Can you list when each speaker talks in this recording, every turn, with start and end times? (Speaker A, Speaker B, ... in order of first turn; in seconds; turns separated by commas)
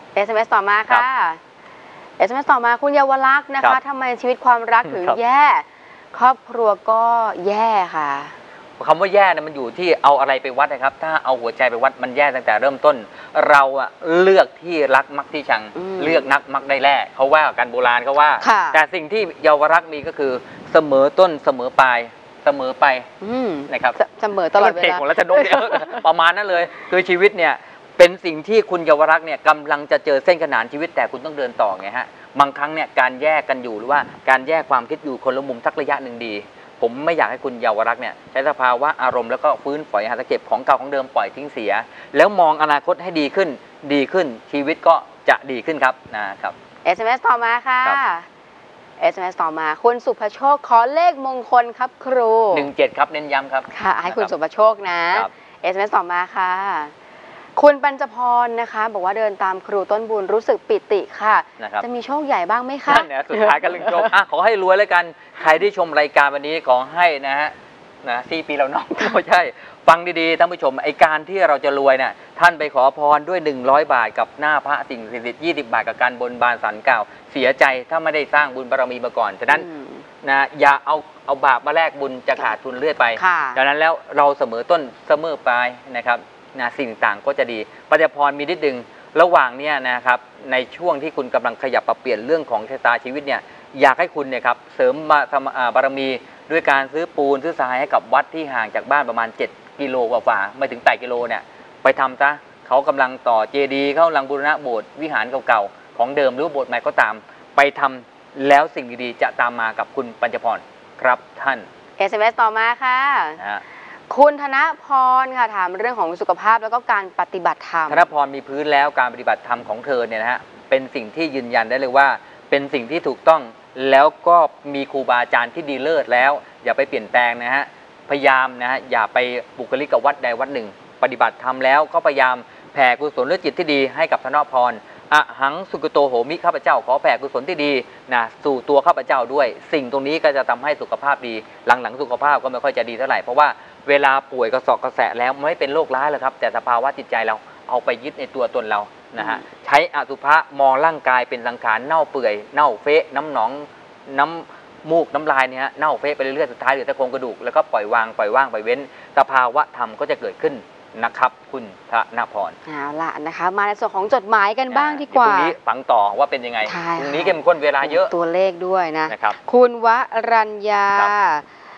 Speaker A: 0.1-1.4, Speaker A: 2.2-8.3, Speaker B: 4.8-5.2, Speaker B: 8.8-23.1, Speaker A: 15.7-16.3, Speaker A: 18.4-18.8, Speaker A: 23.2-26.0, Speaker B: 23.7-24.0, Speaker B: 24.6-46.5, Speaker A: 46.8-48.3, Speaker A: 49.0-52.7, Speaker B: 52.5-54.3, Speaker A: 53.7-56.9, Speaker A: 57.5-64.1, Speaker B: 61.6-61.8, Speaker B: 62.9-79.7, Speaker A: 79.5-80.0, Speaker B: 80.2-111.7, Speaker A: 83.2-83.6, Speaker A: 112.0-113.4, Speaker A: 114.1-118.0, Speaker B: 117.9-162.6, Speaker A: 149.2-149.4, Speaker A: 162.7-165.5, Speaker B: 164.7-168.1, Speaker A: 166.6-171.4, Speaker B: 169.1-169.4